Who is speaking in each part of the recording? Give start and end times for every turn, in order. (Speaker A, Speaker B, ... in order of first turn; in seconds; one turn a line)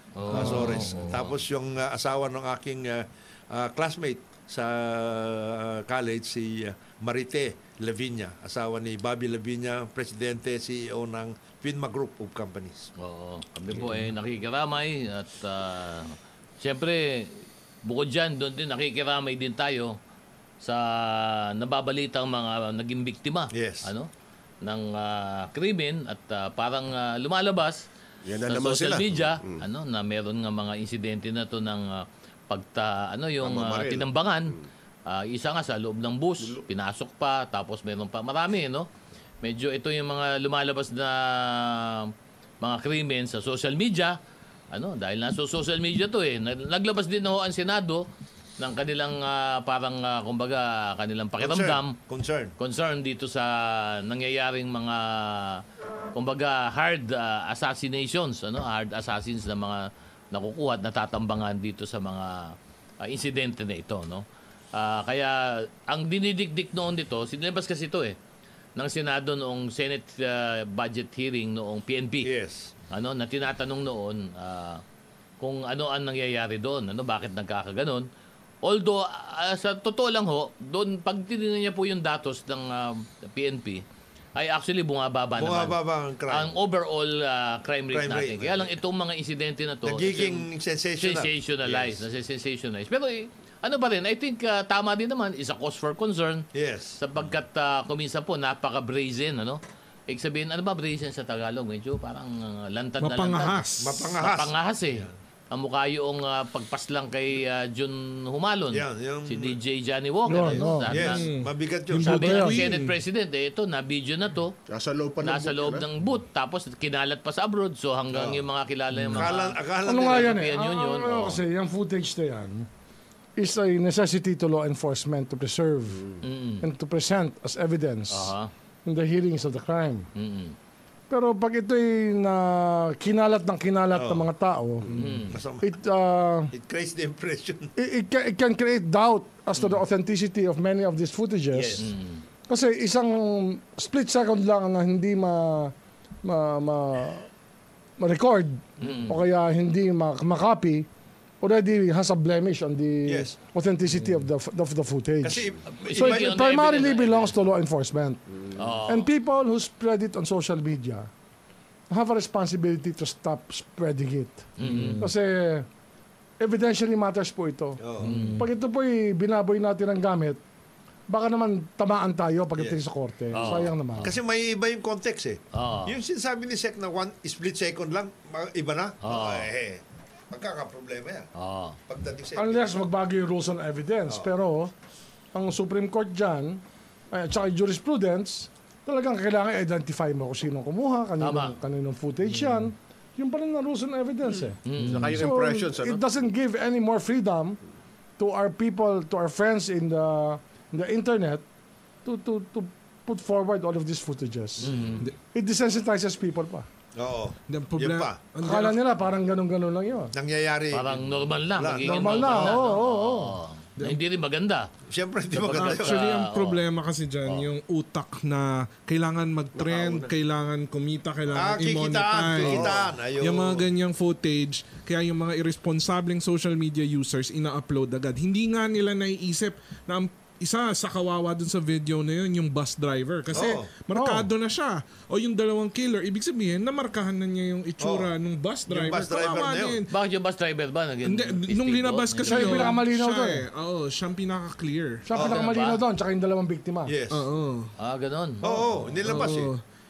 Speaker A: 0.2-1.4
Speaker B: 0.3-12.9
Speaker C: 0.3-0.8
Speaker A: 13.0-19.9
Speaker A: 20.6-24.1
Speaker B: 23.5-23.9
Speaker A: 24.6-27.9
Speaker D: 28.2-29.6
Speaker A: 28.4-34.5
Speaker D: 33.4-34.7
Speaker A: 35.1-38.9
Speaker A: 39.4-44.2
Speaker A: 44.7-48.0
Speaker A: 48.6-52.0
Speaker B: 51.4-52.5
Speaker A: 52.6-55.6
Speaker A: 56.1-68.2
Speaker A: 68.8-72.3
Speaker B: 72.2-72.7
Speaker A: 72.9-74.8
Speaker A: 75.4-78.1
Speaker A: 78.6-83.8
Speaker A: 84.3-85.8
Speaker B: 85.4-86.5
Speaker A: 86.3-90.5
Speaker B: 87.9-88.7
Speaker B: 89.8-92.0
Speaker A: 91.0-96.5
Speaker B: 96.5-97.0
Speaker A: 97.0-103.6
Speaker C: 103.0-104.1
Speaker B: 103.8-105.1
Speaker A: 104.2-111.2
Speaker B: 108.7-109.6
Speaker E: 110.3-111.0
Speaker B: 110.3-112.5
Speaker C: 110.9-113.0
Speaker E: 112.0-112.6
Speaker A: 112.0-114.5
Speaker D: 114.7-115.8
Speaker A: 115.2-121.4
Speaker B: 118.1-118.5
Speaker C: 118.9-119.3
Speaker B: 119.1-120.4
Speaker E: 119.8-122.7
Speaker E: 123.3-126.1
Speaker A: 126.2-126.7
Speaker E: 126.6-128.3
Speaker A: 128.1-128.5
Speaker E: 128.8-130.1
Speaker A: 130.1-130.6
Speaker E: 131.1-136.5
Speaker B: 133.9-134.3
Speaker A: 134.9-135.4
Speaker B: 135.3-135.7
Speaker B: 136.5-137.7
Speaker E: 137.8-141.9
Speaker B: 141.5-141.9
Speaker A: 141.7-142.2
Speaker E: 142.5-145.7
Speaker E: 146.2-147.3
Speaker E: 148.0-150.9
Speaker A: 148.8-149.2
Speaker E: 151.4-158.2
Speaker B: 153.0-153.4
Speaker B: 155.2-156.4
Speaker A: 155.8-157.3
Speaker A: 158.6-159.1
Speaker E: 158.9-161.1
Speaker E: 161.9-164.5
Speaker A: 164.6-165.0
Speaker C: 164.6-165.1
Speaker E: 165.0-165.7
Speaker E: 166.4-167.8
Speaker B: 167.8-168.1
Speaker C: 168.0-168.5
Speaker A: 168.0-168.4
Speaker E: 168.4-170.4
Speaker E: 171.1-174.1
Speaker A: 173.3-174.2
Speaker B: 173.4-181.3
Speaker A: 175.5-176.0
Speaker A: 179.0-179.5
Speaker A: 181.3-181.8
Speaker B: 181.9-182.8
Speaker E: 182.3-184.7
Speaker B: 184.1-184.3
Speaker E: 185.3-194.6
Speaker A: 191.2-191.6
Speaker C: 192.2-192.7
Speaker A: 194.6-195.2
Speaker C: 194.8-195.2
Speaker D: 194.9-196.1
Speaker E: 195.1-197.6
Speaker E: 198.2-201.4
Speaker E: 202.0-206.7
Speaker A: 204.6-205.1
Speaker B: 206.9-208.2
Speaker C: 207.5-209.0
Speaker E: 208.4-210.1
Speaker B: 210.1-212.6
Speaker A: 210.7-214.7
Speaker E: 211.8-213.4
Speaker B: 214.9-216.0
Speaker A: 215.3-216.6
Speaker C: 215.4-239.9
Speaker D: 219.5-220.1
Speaker B: 221.3-223.7
Speaker D: 222.4-222.8
Speaker B: 233.3-233.7
Speaker E: 233.9-234.3
Speaker B: 237.8-238.1
Speaker B: 238.7-239.8
Speaker A: 239.9-242.8
Speaker C: 241.0-245.1
Speaker E: 242.3-243.4
Speaker E: 245.1-246.9
Speaker B: 245.1-245.5
Speaker A: 245.2-245.8
Speaker B: 246.8-247.2
Speaker C: 247.1-247.7
Speaker A: 247.8-248.7
Speaker B: 248.4-249.5
Speaker C: 249.0-249.6